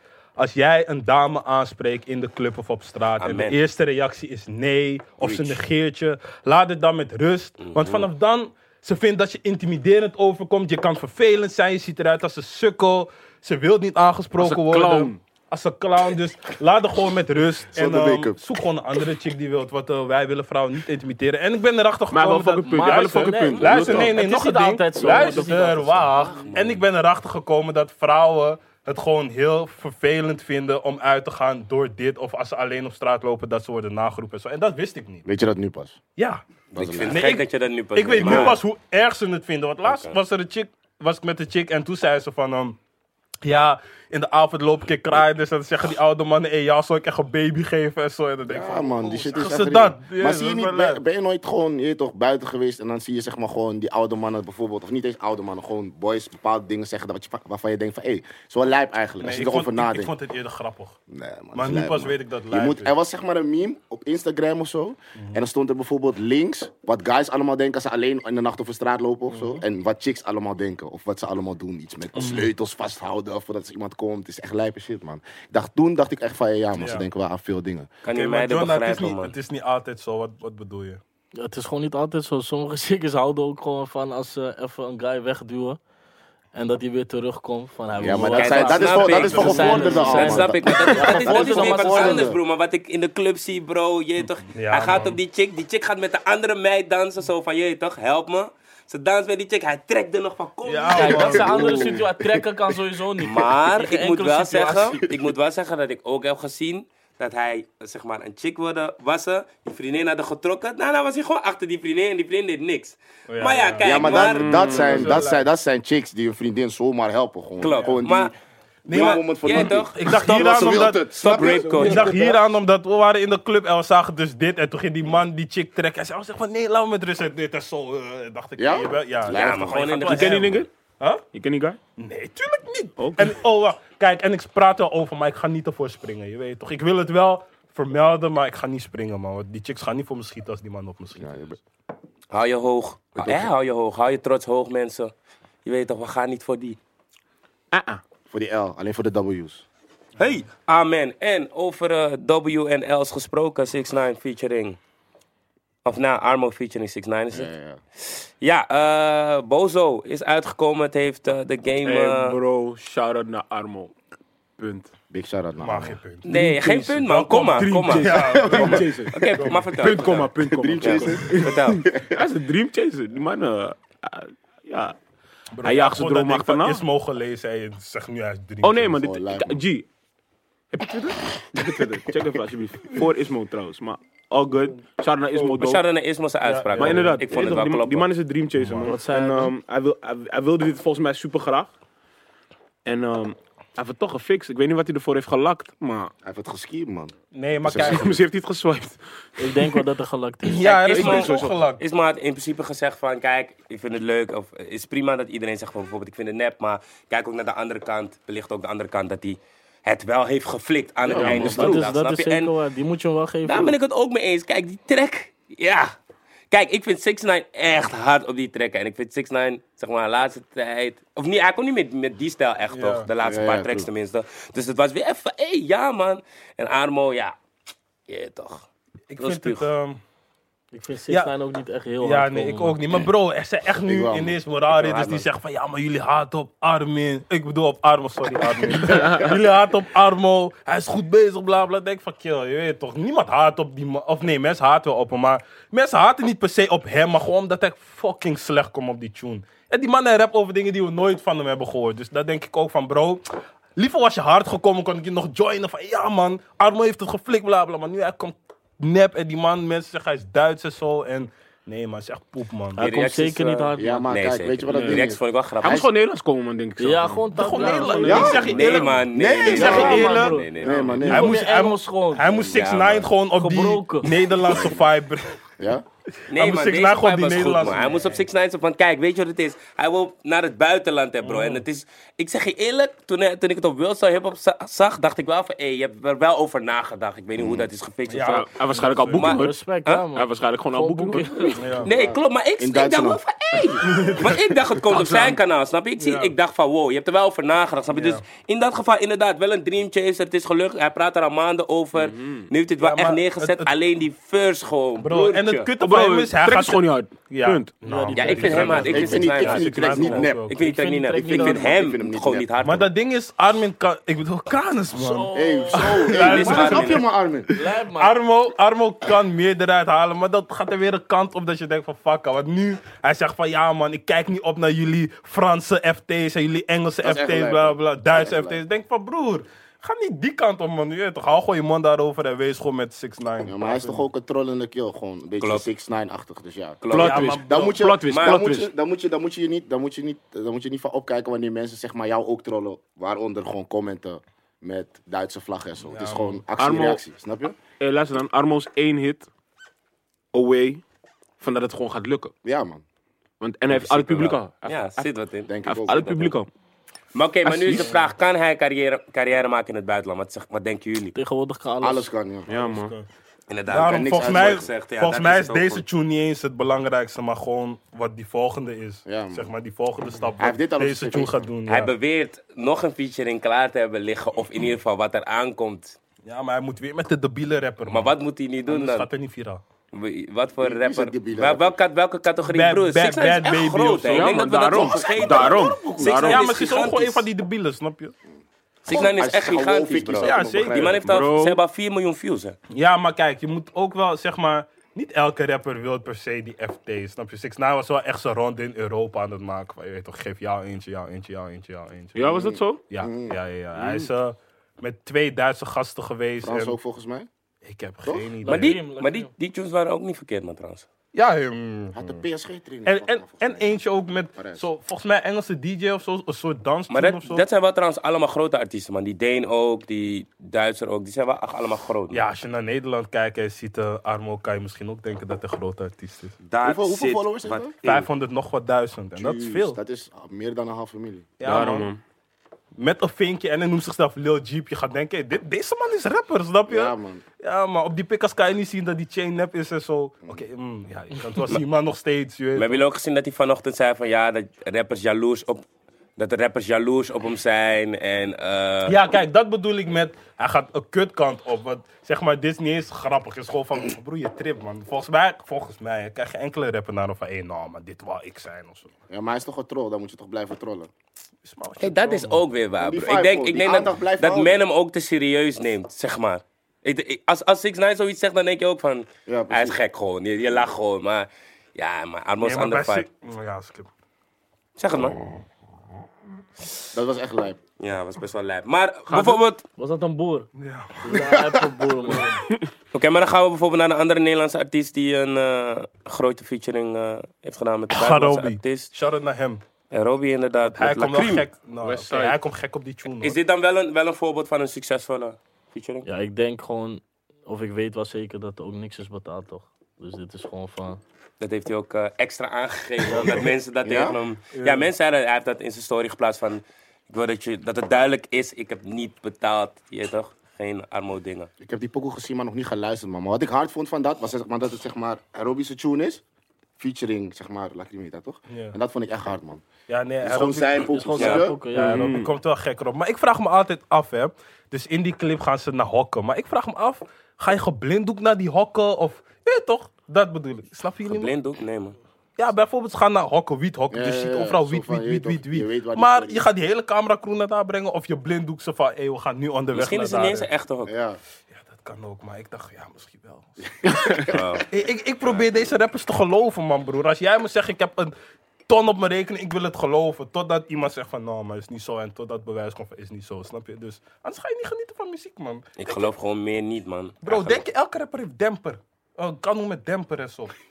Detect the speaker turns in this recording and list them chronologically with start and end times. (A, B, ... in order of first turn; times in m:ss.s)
0:00.4-0:35.2 A
0:03.2-0:03.6 B
0:05.2-0:05.6 B
0:07.6-0:08.1 B
0:14.4-0:15.2 C
0:17.7-0:18.4 D
0:22.1-0:24.2 C
0:22.6-0:26.1 E
0:23.6-0:24.0 B
0:25.0-0:25.9 C
0:26.3-0:26.8 B
0:35.2-0:36.0 D
0:36.2-0:36.4 A
0:36.7-0:38.6 B
0:36.8-0:37.2 D
0:37.0-0:42.8 A
0:38.2-0:38.6 D
0:39.8-0:40.2 B
0:43.4-0:51.0 A
0:48.5-1:00.1 D
0:59.2-1:01.0 A
1:01.1-1:17.9 D
1:01.5-1:02.9 A
1:09.3-1:09.6 A
1:12.2-1:12.5 A
1:16.8-1:17.1 A
1:18.0-1:19.3 B
1:18.1-1:21.0 A
1:21.4-1:25.8 E
1:26.6-1:32.2 E
1:28.0-1:32.4 D
1:28.3-1:41.5 B
1:29.3-1:30.1 A
1:30.9-1:32.2 A
1:34.5-1:35.2 A
1:40.6-1:41.8 A
1:40.9-1:45.0 E
1:41.0-1:42.4 D
1:43.2-1:55.0 B
1:53.3-1:55.5 A
1:53.8-1:58.3 D
1:54.1-1:55.2 C
1:57.6-1:58.4 B
1:57.7-1:58.0 A
1:58.9-2:01.1 A
1:58.9-2:02.2 D
1:58.9-2:02.2 B
2:01.2-2:02.4 C
2:01.8-2:11.2 A
2:08.6-2:10.0 D
2:09.2-2:10.7 B
2:10.0-2:10.7 C
2:11.3-2:11.8 C
2:12.0-2:21.6 A
2:13.0-2:13.4 C
2:21.2-2:21.5 D
2:22.3-2:25.1 B
2:23.2-2:23.5 D
2:25.6-2:26.8 B
2:27.7-2:28.0 C
2:28.3-2:29.6 D
2:30.2-2:34.8 B
2:35.8-2:42.4 B
2:37.3-2:37.8 D
2:41.8-2:43.9 C
2:44.6-2:44.9 C
2:45.1-2:46.0 D
2:45.6-2:46.3 A
2:46.2-2:51.8 B
2:46.3-2:55.0 C
2:47.0-2:49.7 A
2:48.4-2:48.8 D
2:50.4-2:52.2 D
2:55.5-2:59.0 A
2:55.6-2:56.8 C
2:58.6-2:59.9 C
2:59.0-2:59.6 D
3:00.7-3:05.8 C
3:05.4-3:08.1 B
3:06.4-3:07.4 A
3:06.8-3:11.7 C
3:08.6-3:09.5 A
3:08.9-3:09.3 E
3:12.9-3:16.1 C
3:16.2-3:18.2 D
3:17.3-3:18.1 A
3:17.8-3:19.8 C
3:19.4-3:20.7 E
3:20.4-3:21.8 A
3:20.6-3:32.5 B
3:20.9-3:21.6 C
3:31.0-3:31.8 D
3:31.2-3:31.5 C
3:31.2-3:33.8 E
3:33.4-3:35.9 B
3:36.5-3:47.4 B
3:42.7-3:43.1 A
3:43.2-3:43.9 D
3:48.1-3:49.7 B
3:49.1-3:50.0 A
3:50.7-3:52.8 E
3:52.0-4:13.2 A
3:53.9-3:54.4 D
3:54.7-3:55.2 B
4:13.8-4:22.8 A
4:22.8-4:24.1 E
4:22.8-4:25.9 B
4:23.8-4:25.2 D
4:24.7-4:25.0 C
4:25.6-4:28.8 C
4:26.8-4:28.5 E
4:27.3-4:30.4 A
4:28.0-4:31.4 D
4:28.1-4:30.8 B
4:29.5-4:32.5 E
4:30.6-4:31.0 C
4:31.0-4:35.4 A
4:32.4-4:33.1 B
4:33.4-4:34.1 E
4:34.5-4:34.8 D
4:35.6-4:35.8 D
4:36.3-4:38.2 A
4:36.3-4:50.0 B
4:41.2-4:41.6 A
4:47.4-4:47.7 D
4:48.1-4:49.2 A
4:48.2-4:49.6 C
4:49.2-4:51.6 E
4:50.1-4:51.8 C
4:51.6-4:51.9 A
4:51.8-4:53.2 D
4:51.8-5:05.7 B
4:53.8-4:54.5 A
4:54.9-4:55.4 C
4:56.0-4:56.3 A
4:57.9-4:58.2 A
5:02.0-5:02.5 C
5:02.8-5:03.7 A
5:05.0-5:10.6 A
5:05.8-5:07.7 C
5:07.8-5:11.7 E
5:08.1-5:12.9 B
5:08.6-5:10.5 D
5:11.1-5:12.5 D
5:12.6-5:34.0 A
5:14.9-5:16.7 E
5:15.3-5:17.5 D
5:16.1-5:17.0 B
5:17.5-5:18.1 E
5:27.0-5:28.6 D
5:33.4-5:47.6 D
5:35.4-5:35.7 B
5:36.8-5:37.4 B
5:36.9-5:38.7 C
5:37.0-5:37.8 A
5:38.1-5:38.4 B
5:45.9-5:46.4 A
5:46.6-5:47.0 C
5:47.8-5:49.3 C
5:50.3-5:50.8 C
5:51.4-5:52.3 C
5:52.4-5:52.8 D
5:53.4-5:55.1 C
5:53.7-5:56.3 B
5:55.5-5:56.2 D
5:55.6-5:56.5 C
5:57.1-6:01.2 B
5:57.4-5:57.9 C
5:57.7-5:58.0 A
6:01.1-6:02.1 E
6:01.8-6:02.5 D
6:02.5-6:02.9 C
6:02.5-6:03.1 A
6:03.5-6:05.8 B
6:03.7-6:11.9 A
6:03.7-6:04.7 D
6:09.0-6:09.5 D
6:10.4-6:11.3 D
6:11.7-6:16.0 B
6:16.2-6:18.2 A
6:17.9-6:19.1 B
6:18.7-6:19.6 A
6:19.9-6:27.3 B
6:20.6-6:21.7 D
6:22.5-6:24.5 A
6:24.1-6:26.5 C
6:24.7-6:26.1 D
6:26.1-6:28.1 A
6:28.8-6:32.6 B
6:28.9-6:31.2 D
6:30.2-6:31.0 A
6:31.0-6:31.6 C
6:32.7-6:46.8 A
6:42.1-6:42.8 C
6:42.3-6:44.0 D
6:46.4-6:47.3 D
6:47.6-6:48.8 A
6:48.0-6:48.3 D
6:48.4-6:49.3 E
6:48.5-6:50.9 B
6:51.1-6:52.1 A
6:51.9-6:53.8 D
6:52.8-6:57.4 A
6:54.4-6:54.6 D
6:56.9-7:02.2 B
7:02.1-7:06.4 A
7:06.4-7:08.0 B
7:06.6-7:08.0 D
7:07.8-7:09.8 A
7:09.2-7:11.3 D
7:11.4-7:11.9 A
7:11.4-7:12.0 C
7:12.8-7:22.8 A
7:16.7-7:17.2 D
7:22.5-7:25.6 B
7:26.2-7:29.0 B
7:28.9-7:38.9 A
7:39.1-7:40.9 D
7:41.4-7:42.4 A
7:41.8-7:53.0 B
7:42.8-7:44.6 D
7:49.3-7:49.8 D
7:52.4-7:53.9 A
7:54.8-7:55.2 B
7:56.9-7:57.6 D
7:57.8-7:59.6 B
7:59.8-8:00.5 E
8:00.6-8:01.4 A
8:01.0-8:02.4 E
8:02.9-8:08.9 B
8:07.9-8:09.6 A
8:09.9-8:11.5 B
8:10.7-8:13.4 A
8:11.8-8:12.4 C
8:13.2-8:16.1 B
8:16.0-8:21.0 E
8:21.4-8:31.5 B
8:23.8-8:24.2 D
8:24.5-8:24.9 A
8:31.6-8:36.2 D
8:36.8-8:39.6 D
8:38.5-8:38.8 A
8:39.9-8:51.3 A
8:40.2-8:41.6 D
8:40.9-8:42.1 E
8:41.2-8:41.5 B
8:41.8-8:42.3 C
8:51.1-8:52.0 B
8:52.4-9:00.5 A
8:53.9-8:56.4 D
8:59.7-9:00.9 B
9:00.9-9:01.2 D
9:01.5-9:08.1 A
9:03.8-9:04.4 D
9:04.2-9:04.7 B
9:05.2-9:05.7 B
9:08.7-9:16.1 A
9:15.8-9:17.6 B
9:17.2-9:20.5 A